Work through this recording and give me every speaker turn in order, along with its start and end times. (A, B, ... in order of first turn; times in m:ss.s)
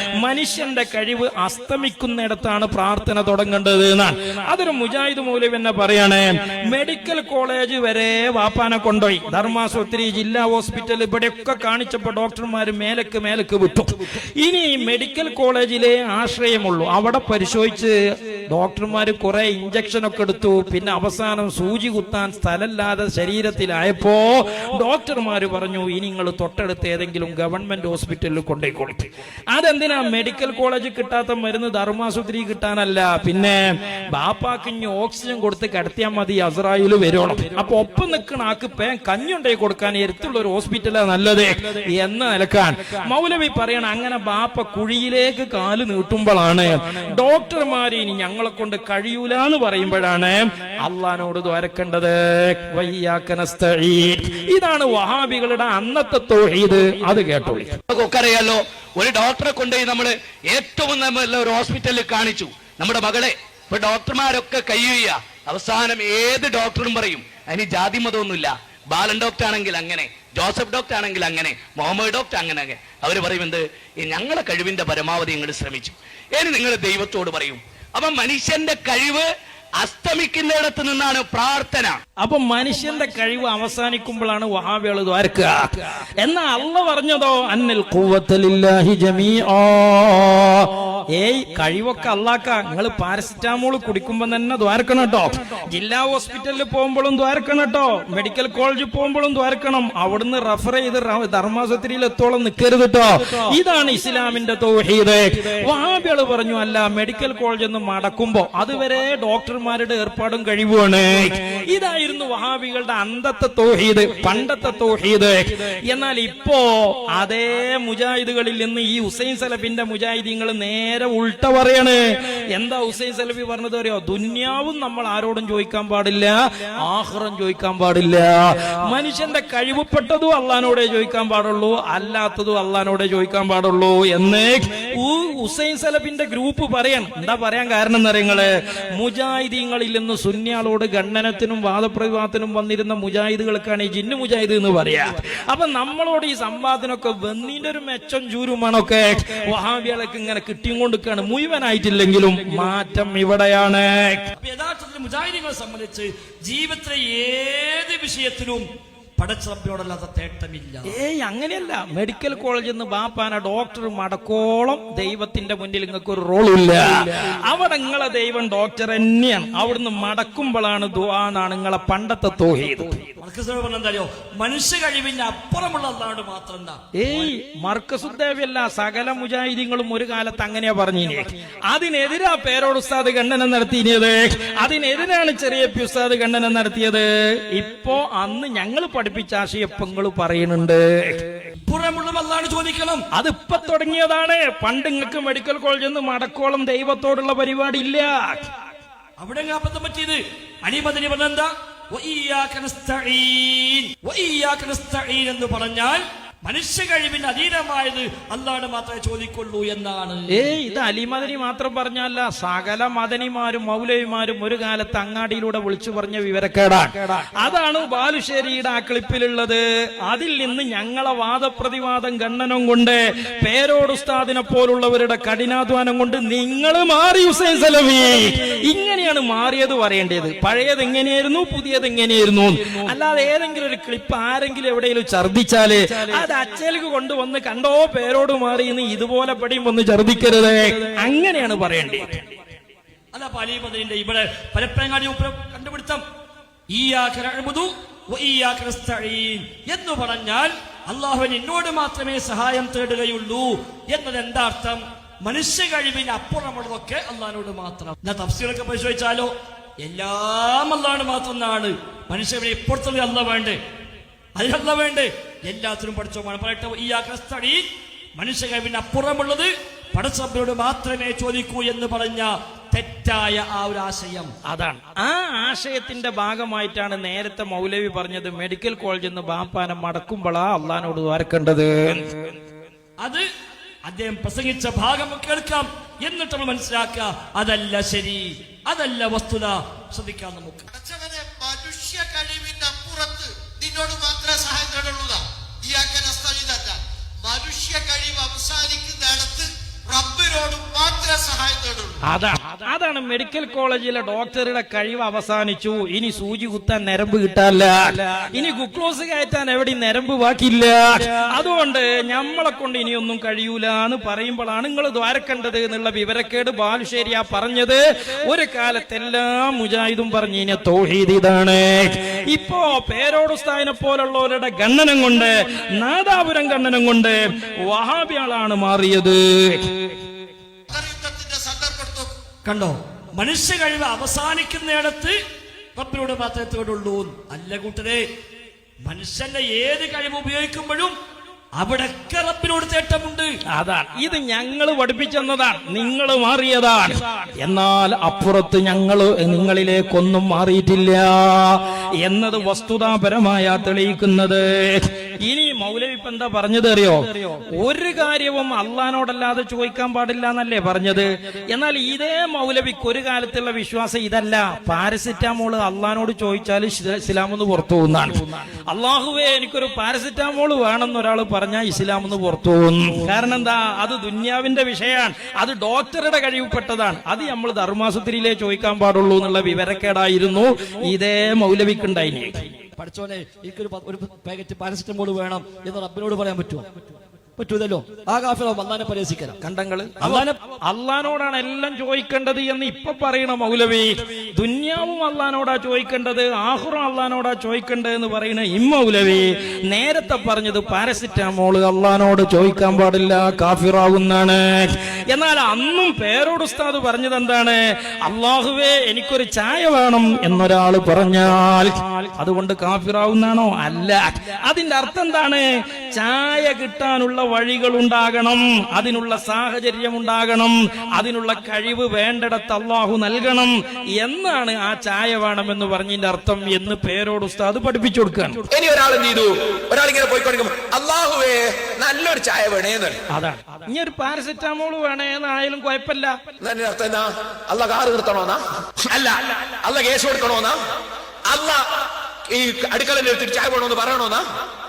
0:00.2-0:17.9 A
0:18.5-0:33.6 A
0:34.1-0:57.8 A
0:57.9-1:19.3 B
1:19.8-1:22.0 B
1:22.2-2:02.0 A
2:02.5-2:06.3 A
2:06.8-2:34.2 A
2:34.4-2:38.6 C
2:39.2-2:40.9 C
2:40.9-2:53.1 A
2:53.2-2:56.8 C
2:57.0-3:11.2 A
3:11.6-3:13.0 C
3:13.1-3:18.4 A
3:19.2-3:30.5 C
3:30.3-4:02.3 A
4:03.1-4:06.0 C
4:06.7-4:19.3 C
4:19.8-4:23.6 C
4:24.4-4:27.6 C
4:28.2-4:34.3 C
4:34.4-4:42.3 A
4:43.0-4:43.2 C
4:43.9-4:50.7 C
4:50.7-5:02.0 D
5:02.0-5:29.8 A
5:30.7-5:32.1 D
5:32.4-5:35.1 C
5:35.8-5:38.0 C
5:38.8-5:40.9 C
5:41.6-5:43.3 C
5:43.6-6:22.4 A
6:22.8-6:26.7 C
6:27.4-6:29.4 C
6:29.4-7:08.4 A
6:30.0-6:30.4 C
7:08.5-7:13.0 E
7:13.1-7:16.2 A
7:16.4-7:20.6 E
7:21.3-7:21.6 E
7:22.3-7:24.2 E